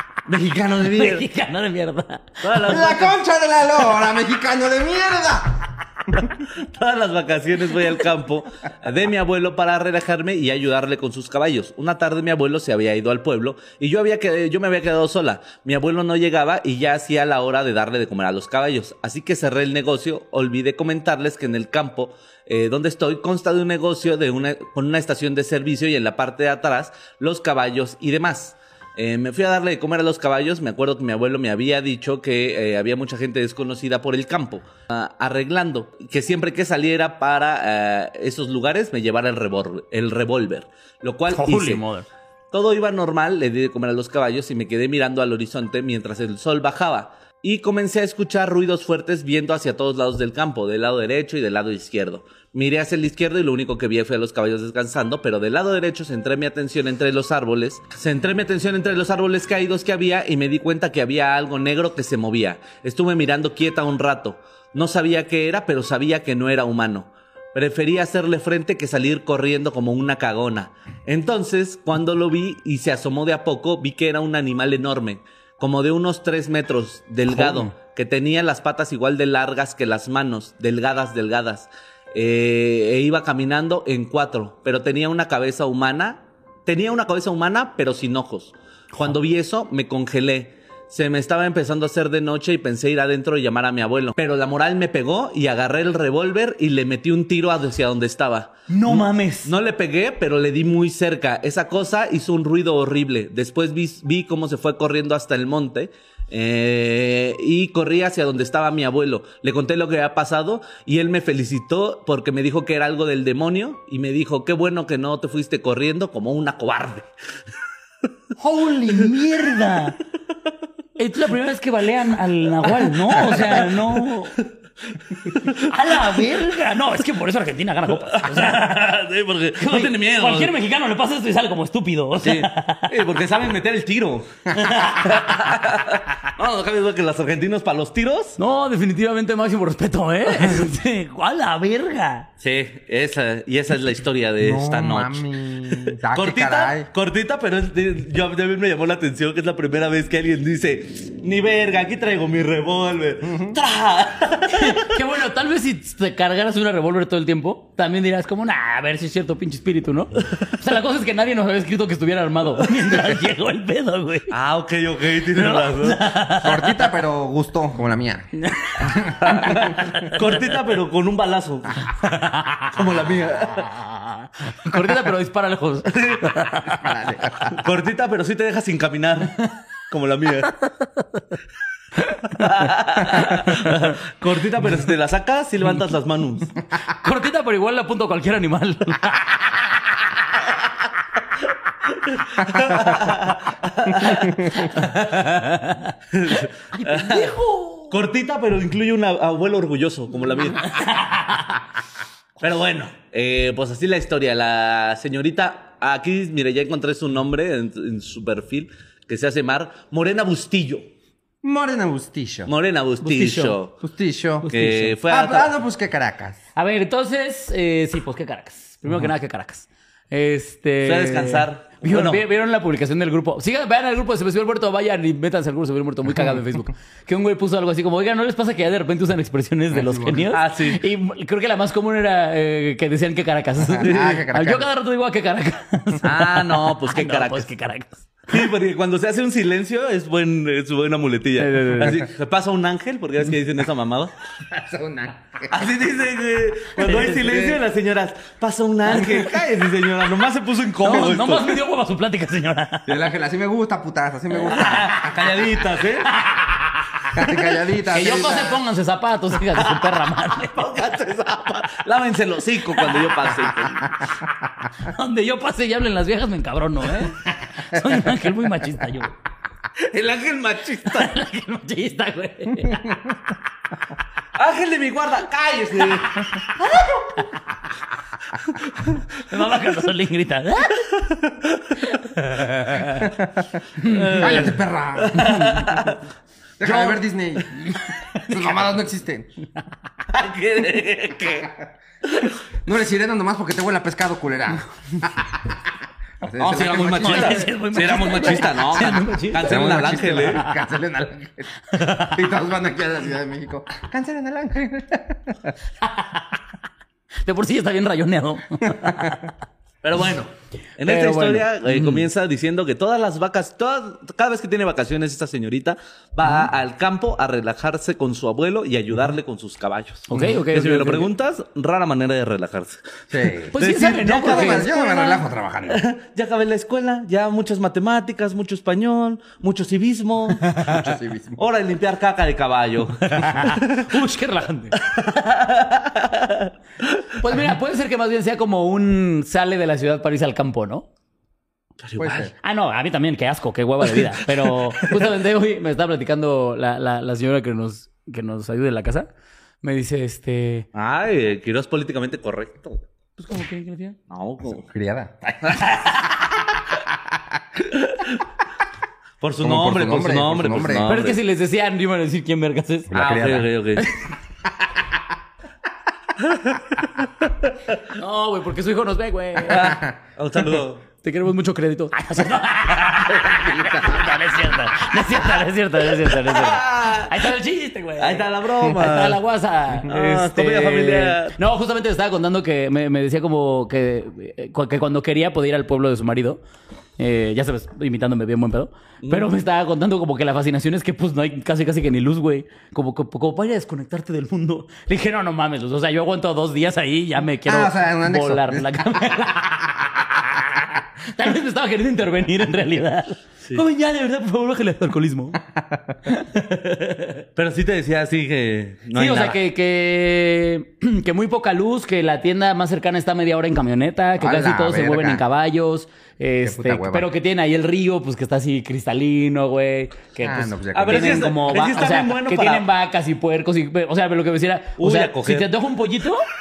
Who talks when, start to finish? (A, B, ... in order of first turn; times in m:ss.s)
0:00.3-0:01.2 A
0:00.9-0:02.5 B
0:02.4-0:03.2 A
0:02.7-0:06.4 C
0:06.5-0:41.8 A
0:41.3-0:42.1 B
0:42.5-1:57.1 A
1:38.7-1:39.5 B
1:58.4-2:00.0 B
2:01.0-2:04.4 B
2:02.7-2:04.5 A
2:05.1-2:06.4 A
2:05.4-2:08.8 B
2:08.0-2:10.5 A
2:09.6-2:12.9 B
2:12.2-2:18.4 A
2:14.8-2:15.4 B
2:18.4-2:22.3 B
2:22.4-2:35.0 A
2:24.4-2:26.9 C
2:33.2-2:33.6 C
2:34.5-2:44.3 B
2:44.3-2:46.0 A
2:45.3-2:46.7 B
2:46.4-2:48.3 C
2:48.4-2:50.5 B
2:48.8-2:49.6 C
2:49.2-2:51.9 A
2:52.1-2:52.7 B
2:52.7-2:53.8 A
2:53.7-2:56.9 B
2:55.9-2:56.4 A
2:56.8-2:57.6 C
2:57.5-3:00.6 A
3:02.0-3:04.0 B
3:02.4-3:06.5 A
3:06.8-3:09.7 B
3:12.1-3:14.9 A
3:14.0-3:17.9 B
3:16.1-3:17.4 A
3:17.9-3:20.8 A
3:20.6-3:21.6 B
3:22.4-3:30.9 A
3:31.4-3:32.5 C
3:32.5-3:33.8 A
3:33.0-3:33.6 B
3:33.8-3:36.4 C
3:34.4-3:34.9 B
3:34.5-3:35.5 A
3:36.6-3:58.1 B
3:40.8-3:42.2 A
3:49.7-3:50.3 C
3:50.3-3:50.8 A
3:53.7-3:54.7 C
3:56.0-3:57.5 A
3:58.3-4:04.1 A
4:01.4-4:02.0 B
4:04.5-4:05.6 C
4:05.5-4:11.6 A
4:06.8-4:07.2 B
4:06.8-4:07.6 C
4:10.8-4:13.0 B
4:12.9-4:15.3 C
4:14.5-4:16.1 A
4:16.1-4:16.8 B
4:17.1-4:18.6 C
4:17.8-4:20.7 B
4:19.6-4:23.9 A
4:24.8-4:29.2 B
4:29.8-4:31.2 A
4:30.9-4:33.0 B
4:34.4-4:37.0 A
4:38.5-4:39.2 A
4:39.3-4:40.9 B
4:41.0-4:41.8 A
4:41.8-4:43.1 B
4:43.0-4:43.5 C
4:43.8-4:44.4 B
4:43.8-4:46.0 A
4:44.1-4:45.3 C
4:45.2-4:45.8 B
4:46.6-4:47.7 C
4:46.6-4:47.0 A
4:47.8-4:48.4 B
4:48.2-4:49.3 C
4:50.1-4:51.5 A
4:52.1-4:52.3 A
4:52.6-4:55.3 C
4:56.2-4:57.5 C
4:56.4-5:00.5 A
4:56.6-5:00.5 B
4:59.4-5:05.5 C
5:01.7-5:02.2 B
5:05.9-5:06.2 B
5:07.2-5:09.3 B
5:08.8-5:09.1 C
5:09.8-5:22.8 A
5:10.8-5:12.1 B
5:20.1-5:21.1 B
5:23.1-5:25.8 C
5:23.5-5:25.2 B
5:23.6-5:24.7 A
5:25.7-5:34.0 A
5:30.7-5:31.4 C
5:33.1-5:34.8 B
5:34.8-5:37.0 A
5:37.2-5:40.9 B
5:41.8-5:42.3 A
5:42.0-5:42.3 C
5:42.4-5:49.1 B
5:44.5-5:45.1 A
5:49.6-5:50.7 B
5:50.8-5:52.8 A
5:53.2-5:54.0 B
5:54.1-5:54.7 A
5:54.5-5:55.9 C
5:55.4-5:55.9 A
5:57.8-5:58.2 A
5:59.2-6:01.2 A
5:59.4-6:00.9 C
6:00.9-6:02.9 B
6:02.9-6:03.5 C
6:02.9-6:03.9 A
6:06.2-6:06.8 A
6:07.5-6:07.8 A
6:07.9-6:09.7 B
6:09.5-6:10.8 A
6:09.6-6:09.9 C
6:11.0-6:26.4 B
6:13.5-6:13.8 C
6:15.9-6:17.3 A
6:18.0-6:19.2 A
6:19.9-6:21.4 A
6:27.0-6:45.4 B
6:37.4-6:38.9 C
6:45.6-6:46.0 C
6:46.1-6:47.2 B
6:47.4-6:49.4 A
6:49.0-7:06.3 B
6:54.2-6:55.2 C
6:56.4-6:57.1 C
7:00.2-7:01.3 C
7:00.7-7:02.7 A
7:04.8-7:05.5 A